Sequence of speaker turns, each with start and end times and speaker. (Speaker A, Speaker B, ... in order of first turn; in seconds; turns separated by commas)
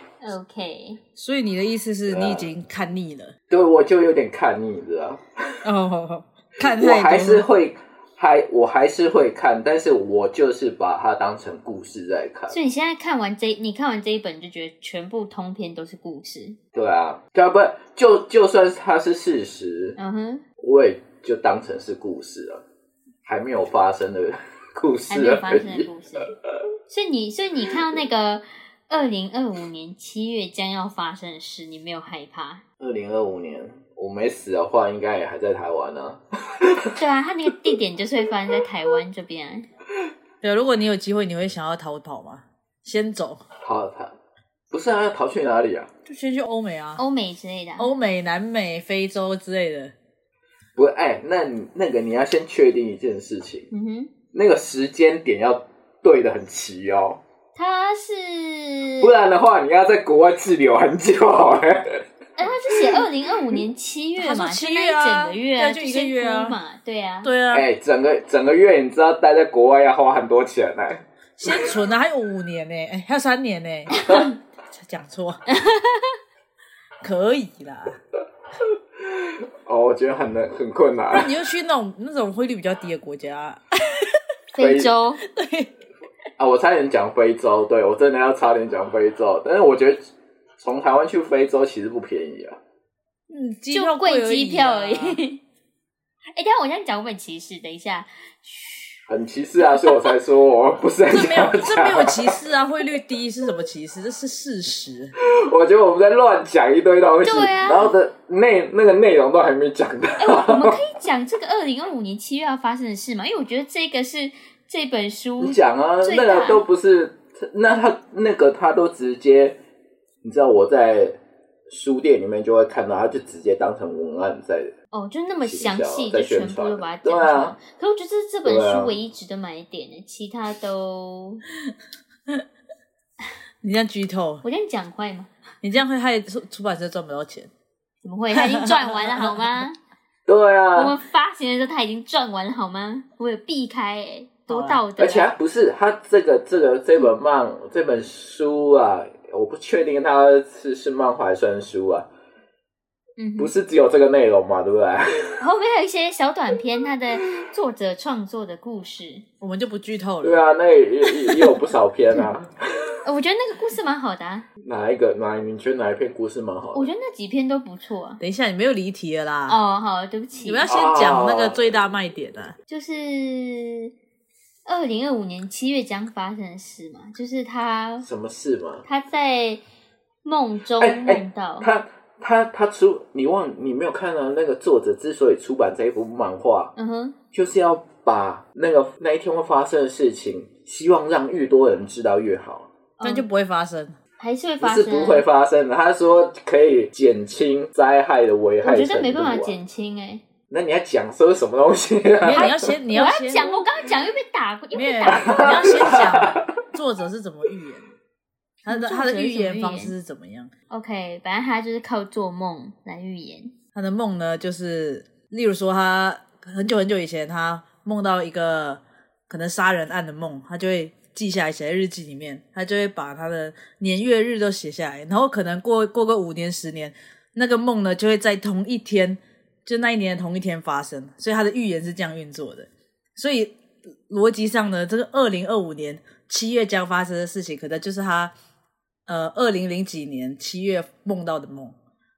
Speaker A: 0.2-1.0, Speaker B: 1.2-3.3, Speaker C: 2.1-2.5, Speaker C: 3.5-5.6, Speaker B: 5.6-7.5, Speaker C: 6.6-12.6, Speaker A: 12.5-16.6, Speaker C: 16.7-20.0, Speaker A: 20.0-20.4, Speaker C: 20.6-22.6, Speaker C: 23.2-25.9, Speaker A: 25.1-26.3, Speaker A: 26.9-32.6, Speaker C: 32.8-37.0, Speaker A: 37.0-39.7, Speaker B: 40.4-43.4, Speaker C: 43.6-44.1, Speaker C: 44.7-45.9, Speaker B: 46.1-47.0, Speaker A: 47.0-47.9, Speaker B: 47.8-49.9, Speaker C: 50.8-53.7, Speaker A: 53.7-54.1, Speaker C: 54.3-57.2, Speaker A: 57.5-59.1, Speaker C: 59.0-62.0, Speaker A: 62.4-67.3, Speaker B: 64.2-66.6, Speaker B: 67.2-67.7, Speaker C: 67.5-71.8, Speaker B: 71.4-74.0, Speaker A: 74.0-74.3, Speaker B: 74.7-75.4, Speaker A: 75.5-76.1, Speaker B: 77.0-78.0, Speaker C: 79.2-81.3, Speaker B: 81.1-84.2, Speaker A: 84.5-85.2, Speaker C: 84.6-84.9, Speaker B: 85.2-85.7, Speaker C: 86.4-90.0, Speaker C: 90.6-92.6, Speaker B: 93.3-95.2, Speaker A: 93.7-95.4, Speaker A: 96.3-99.0, Speaker C: 99.1-102.4, Speaker A: 99.6-100.1, Speaker B: 101.1-105.1, Speaker C: 105.2-110.8, Speaker A: 107.2-107.9, Speaker A: 110.2-116.6, Speaker C: 115.4-119.6, Speaker C: 120.2-124.8, Speaker A: 124.9-131.4, Speaker C: 125.5-127.6, Speaker C: 128.4-129.0, Speaker B: 133.6-134.4, Speaker A: 134.4-135.3, Speaker B: 135.6-137.5, Speaker A: 138.0-139.8, Speaker B: 138.3-139.4, Speaker C: 140.3-141.0, Speaker A: 140.8-145.3, Speaker B: 144.5-144.8, Speaker C: 145.0-152.1, Speaker A: 153.2-153.5, Speaker C: 153.4-155.4, Speaker A: 155.4-159.2, Speaker B: 159.4-160.4, Speaker C: 160.2-163.0, Speaker A: 163.1-164.5, Speaker C: 164.6-166.9, Speaker A: 166.7-168.2, Speaker B: 168.2-169.6, Speaker A: 169.5-170.7, Speaker B: 170.4-172.6, Speaker C: 170.7-171.8, Speaker A: 172.7-173.9, Speaker A: 174.7-178.1, Speaker C: 178.0-178.8, Speaker A: 178.8-179.6, Speaker A: 180.2-181.7, Speaker C: 180.8-186.7, Speaker A: 186.8-187.2, Speaker C: 187.3-192.7, Speaker A: 193.0-193.2, Speaker B: 193.0-194.0, Speaker A: 194.2-195.3, Speaker C: 194.6-199.6, Speaker A: 198.6-200.2, Speaker C: 200.5-202.7, Speaker B: 202.2-203.6, Speaker A: 202.3-206.1, Speaker B: 204.7-207.9, Speaker C: 205.1-206.5, Speaker A: 208.7-209.9, Speaker B: 208.7-210.5, Speaker A: 210.7-213.5, Speaker B: 213.8-233.6, Speaker B: 234.1-238.3, Speaker B: 239.1-241.8